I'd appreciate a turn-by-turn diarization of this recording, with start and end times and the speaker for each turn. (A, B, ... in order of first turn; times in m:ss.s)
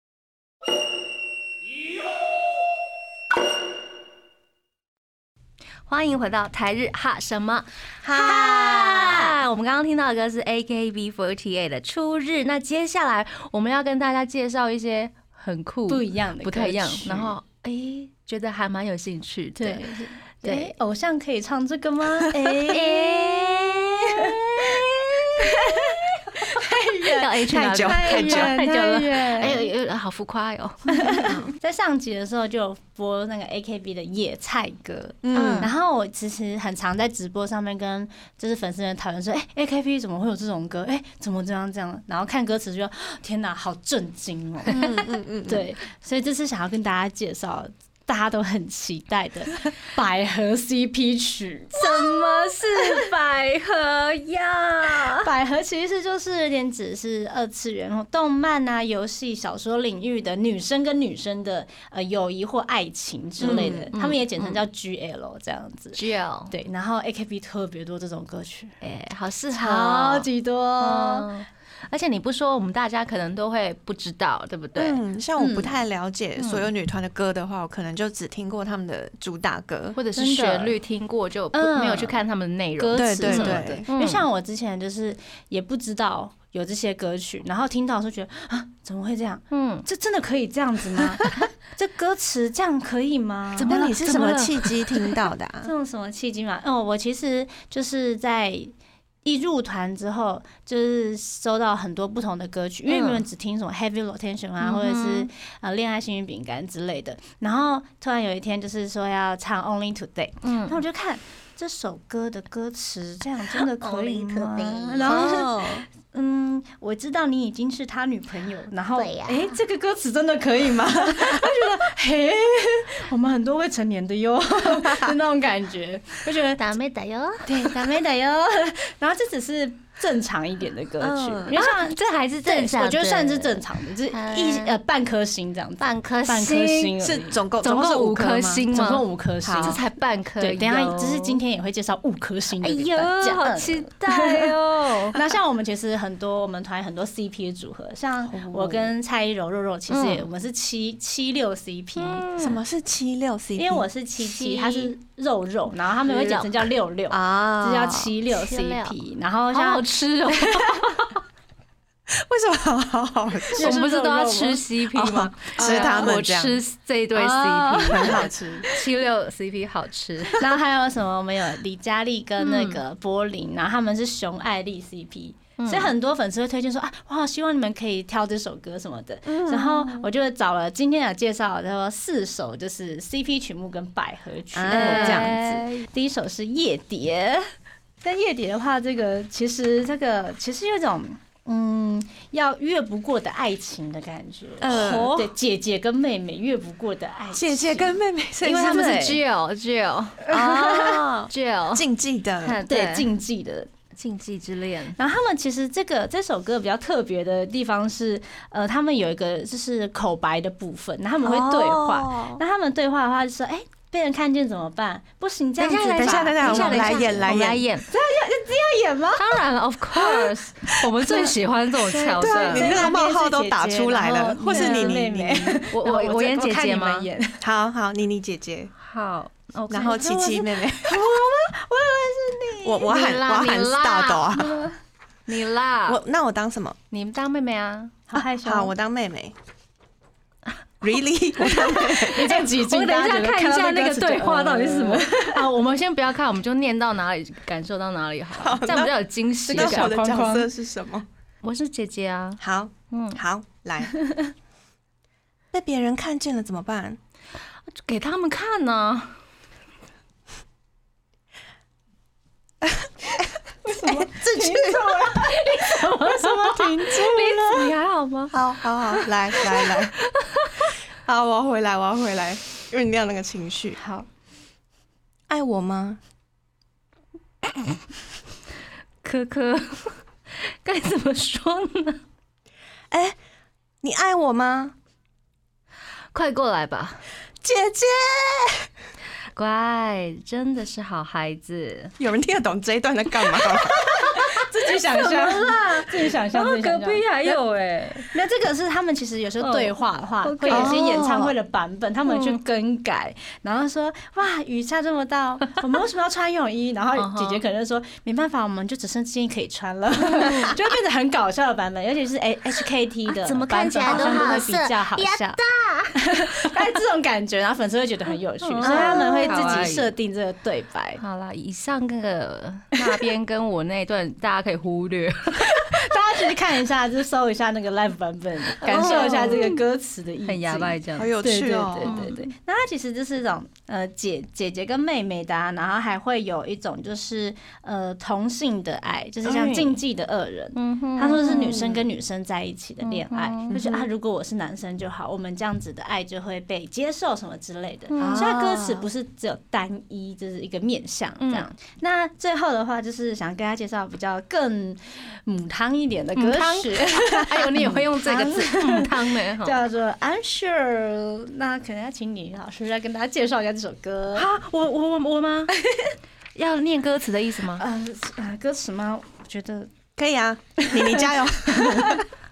0:05.9-0:19.8 A
0:08.0-0:09.2 B
0:08.1-0:09.2 C
0:15.9-0:17.3 C
0:19.6-0:29.7 C
0:20.4-0:20.7 A
0:22.7-0:26.0 A
0:27.0-0:31.3 A
0:27.3-0:28.6 B
0:30.9-0:52.6 C
0:31.3-0:31.5 B
0:35.2-0:35.7 B
0:35.3-0:35.7 A
0:44.7-0:45.6 B
0:51.7-0:55.2 A
0:55.1-1:08.8 C
1:03.4-1:03.9 B
1:03.4-1:04.6 A
1:05.9-1:06.5 A
1:08.8-1:10.3 A
1:09.5-1:11.3 C
1:10.8-1:15.0 A
1:14.8-1:20.0 B
1:15.4-1:15.8 C
1:16.4-1:16.7 A
1:19.9-1:24.2 A
1:20.2-1:20.8 C
1:21.5-1:22.2 C
1:22.8-1:33.8 C
1:22.9-1:23.8 B
1:29.5-1:29.8 A
1:33.6-1:35.2 A
1:33.7-1:35.7 B
1:35.6-1:38.7 C
1:39.2-2:06.7 C
1:42.9-1:43.2 A
1:44.6-1:45.3 A
1:50.4-1:50.8 A
1:53.8-1:55.4 D
1:55.0-1:55.8 B
1:59.0-1:59.6 D
2:04.8-2:05.1 B
2:06.6-2:07.6 D
2:07.4-2:17.4 C
2:11.0-2:11.6 B
2:11.6-2:13.3 A
2:12.4-2:13.4 D
2:14.1-2:14.8 D
2:15.8-2:16.3 D
2:16.1-2:16.9 A
2:17.0-2:18.6 B
2:17.6-2:21.4 A
2:18.7-2:19.8 C
2:19.4-2:19.8 B
2:20.4-2:32.2 C
2:22.6-2:25.2 A
2:28.2-2:28.9 B
2:29.9-2:30.2 A
2:32.0-2:32.6 A
2:32.4-2:33.9 B
2:33.6-2:40.8 C
2:34.2-2:34.9 A
2:36.1-2:36.4 A
2:37.1-2:38.1 B
2:38.3-2:38.9 D
2:39.5-2:41.2 A
2:42.1-2:43.8 B
2:43.6-2:44.7 C
2:43.6-2:50.4 A
2:44.9-2:46.6 B
2:45.6-2:46.1 C
2:47.2-2:48.3 C
2:47.7-2:48.7 B
2:50.4-3:07.5 C
2:52.4-2:52.8 A
2:55.6-2:55.9 A
2:59.3-3:00.0 B
3:04.5-3:05.3 B
3:04.7-3:05.8 A
3:08.0-3:19.2 C
3:14.6-3:15.3 B
3:14.7-3:15.0 A
3:17.3-3:18.8 B
3:18.4-3:21.9 A
3:20.3-3:22.6 B
3:20.3-3:20.9 C
3:22.4-3:23.1 A
3:22.7-3:23.7 C
3:24.0-3:25.0 A
3:25.0-3:37.3 C
3:31.2-3:32.4 B
3:35.6-3:37.9 A
3:35.9-3:37.6 B
3:37.9-3:39.4 C
3:39.2-3:42.8 A
3:39.9-3:41.3 B
3:41.9-3:45.6 B
3:41.9-3:47.4 C
3:44.1-3:45.0 A
3:45.7-3:47.1 A
3:47.4-3:48.7 B
3:48.8-3:50.5 A
3:49.7-3:51.0 B
3:50.8-3:52.9 C
3:52.6-3:54.6 B
3:52.8-3:54.7 A
3:55.3-3:56.0 A
3:55.8-3:56.8 B
3:56.9-3:58.0 A
3:58.1-3:58.7 C
3:58.4-3:59.4 B
4:00.8-4:02.3 B
4:01.4-4:10.2 A
4:01.6-4:05.4 C
4:08.4-4:08.9 B
4:09.5-4:11.1 B
4:09.5-4:10.5 C
4:11.4-4:13.2 A
4:12.4-4:13.9 B
4:15.5-4:17.0 B
4:17.7-4:19.2 A
4:22.6-4:23.3 B
4:23.6-4:27.7 C
4:23.8-4:25.0 B
4:25.4-4:30.7 A
4:28.3-4:30.0 B
4:31.0-4:33.8 B
4:33.8-4:34.1 C
4:35.3-4:36.0 B
4:39.0-4:42.0 A
4:42.9-4:43.2 B
4:43.8-4:44.7 B
4:46.1-4:47.0 A
4:47.4-4:48.7 B
4:49.3-4:51.9 A
4:52.0-4:53.9 B
4:53.9-4:57.4 C
4:54.9-4:58.1 A
4:58.1-5:15.4 C
4:59.4-5:01.0 A
5:00.5-5:01.3 B
5:02.1-5:02.4 A
5:06.9-5:07.4 A
5:10.1-5:10.5 A
5:13.2-5:14.4 A
5:13.4-5:16.0 D
5:15.9-5:21.0 C
5:18.4-5:19.9 A
5:18.6-5:19.1 B
5:18.7-5:19.5 D
5:21.0-5:25.8 A
5:25.4-6:04.3 C
5:28.6-5:29.6 A
5:28.7-5:29.5 B
5:30.2-5:31.1 A
5:30.9-5:32.1 B
5:31.8-5:32.3 A
5:39.2-5:39.8 A
5:40.6-5:41.6 A
5:41.1-5:41.8 B
5:42.8-5:43.6 A
5:43.5-5:43.9 B
5:47.9-5:48.3 A
5:48.0-5:48.8 B
5:51.2-5:51.5 A
5:56.2-5:59.6 A
6:04.1-6:05.5 A
6:06.3-6:07.6 A
6:07.6-6:09.7 C
6:10.0-6:12.0 B
6:10.6-6:12.0 C